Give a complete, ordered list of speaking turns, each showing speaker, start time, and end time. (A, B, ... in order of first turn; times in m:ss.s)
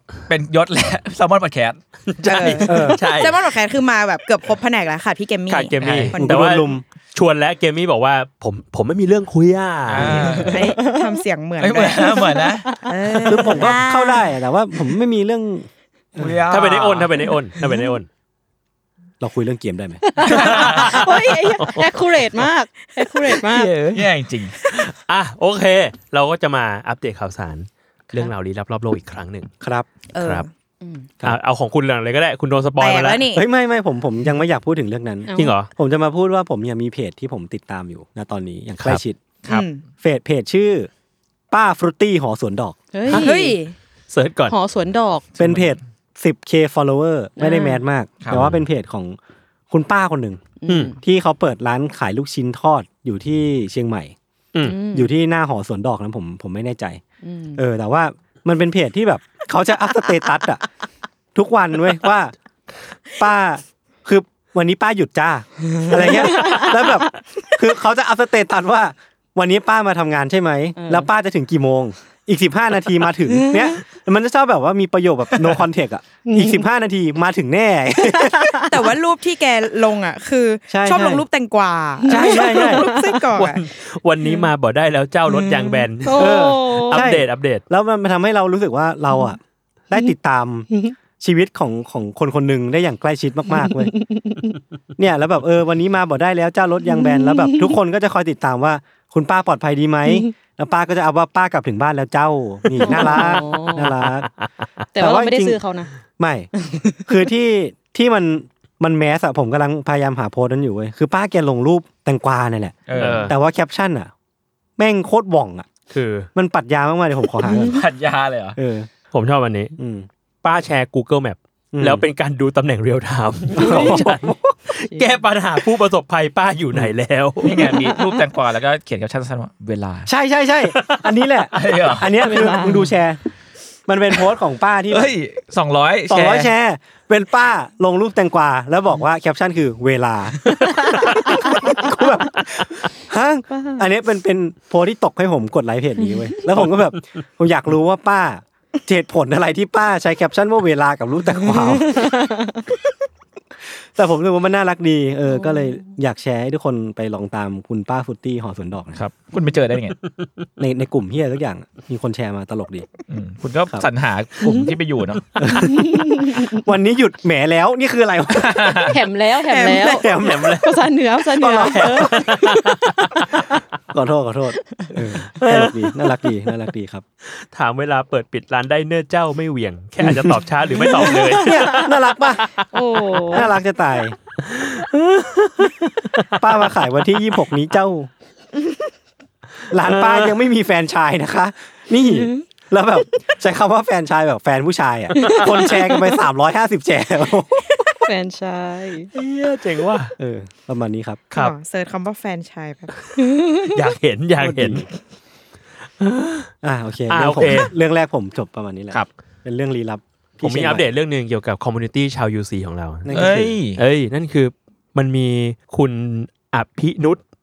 0:00.3-0:01.8 A
0:02.1-0:03.4 B
0:02.2-0:06.4 C
0:02.6-0:03.0 D
0:05.5-0:10.6 B
0:05.8-0:06.1 A
0:06.2-0:06.8 D
0:09.9-0:10.6 A
0:10.5-0:14.3 C
0:10.6-0:11.1 E
0:11.6-0:12.8 A
0:12.0-0:13.8 E
0:13.3-0:16.4 D
0:16.2-0:17.2 A
0:16.5-0:18.1 B
0:17.6-0:17.9 E
0:19.2-0:20.6 D
0:20.0-0:24.0 E
0:20.3-0:21.0 A
0:20.4-0:21.9 B
0:23.4-0:24.6 A
0:24.7-0:29.5 B
0:29.6-0:29.9 D
0:30.1-0:30.5 C
0:30.2-0:30.5 B
0:30.8-0:31.1 E
0:31.2-0:33.3 B
0:32.8-0:33.5 C
0:33.4-0:39.2 D
0:35.3-0:35.6 E
0:35.4-0:35.7 B
0:39.5-0:39.8 C
0:40.0-0:40.9 D
0:41.5-0:42.8 D
0:42.9-0:43.6 E
0:43.1-0:43.8 C
0:44.1-0:44.6 B
0:44.5-0:45.3 E
0:45.4-0:49.2 D
0:45.4-0:45.7 A
0:47.4-0:47.8 E
0:49.7-0:54.2 D
0:50.6-0:51.0 E
0:50.7-0:50.9 B
0:54.5-0:54.8 B
0:54.6-0:55.1 E
0:54.9-0:57.0 D
0:57.2-0:57.6 E
0:57.6-1:00.6 D
1:01.3-1:02.3 D
1:03.2-1:18.7 D
1:05.8-1:07.0 E
1:10.8-1:11.1 E
1:13.4-1:13.7 E
1:16.3-1:16.6 E
1:18.1-1:18.8 E
1:18.7-1:23.6 C
1:20.7-1:21.2 D
1:22.1-1:23.2 E
1:22.1-1:22.9 D
1:23.4-1:27.6 B
1:24.2-1:24.5 E
1:25.3-1:27.1 E
1:26.1-1:33.9 D
1:33.5-1:34.6 E
1:35.0-1:44.3 D
1:36.9-1:37.7 E
1:42.8-1:44.5 B
1:42.8-1:43.9 E
1:45.0-1:45.9 E
1:45.0-1:45.6 D
1:46.2-1:46.5 D
1:46.7-1:47.0 E
1:47.1-1:54.1 D
1:52.9-1:53.3 A
1:53.0-1:53.4 B
1:54.8-1:55.7 D
1:55.9-1:56.3 B
1:56.4-1:57.8 D
1:57.4-1:57.8 E
1:57.7-1:58.6 A
1:58.6-1:58.9 D
1:59.1-1:59.8 B
1:59.8-2:00.1 D
2:00.4-2:07.7 B
2:01.7-2:02.0 D
2:03.6-2:04.4 D
2:03.6-2:04.2 E
2:07.4-2:10.1 A
2:07.8-2:08.2 E
2:10.1-2:13.2 D
2:11.5-2:12.1 A
2:12.2-2:13.0 E
2:13.9-2:15.1 D
2:14.9-2:16.5 A
2:16.1-2:32.0 D
2:32.0-2:32.6 E
2:34.0-2:39.0 D
2:39.0-2:40.0 A
2:40.0-2:40.3 B
2:40.6-2:42.9 D
2:43.1-2:45.2 A
2:45.4-2:49.0 D
2:45.6-2:46.5 E
2:48.3-2:49.0 A
2:48.9-2:52.4 E
2:49.5-2:50.0 C
2:49.9-2:50.8 D
2:50.1-2:50.8 B
2:51.4-2:52.6 D
2:51.7-2:53.2 B
2:53.9-2:57.0 D
2:57.4-3:03.2 B
3:00.0-3:02.5 D
3:00.9-3:01.2 E
3:02.7-3:03.5 E
3:03.3-3:04.2 D
3:04.4-3:06.5 B
3:06.4-3:08.1 D
3:09.7-3:17.8 D
3:09.8-3:10.3 B
3:12.0-3:12.4 E
3:15.2-3:16.2 E
3:15.2-3:15.6 B
3:17.8-3:19.1 E
3:19.1-3:20.1 B
3:20.2-3:21.3 D
3:21.3-3:23.0 C
3:23.7-3:24.9 B
3:24.4-3:24.8 D
3:26.0-3:26.5 B
3:26.6-3:30.9 D
3:27.1-3:27.7 B
3:30.4-3:37.2 B
3:33.1-3:33.6 D
3:33.1-3:33.8 A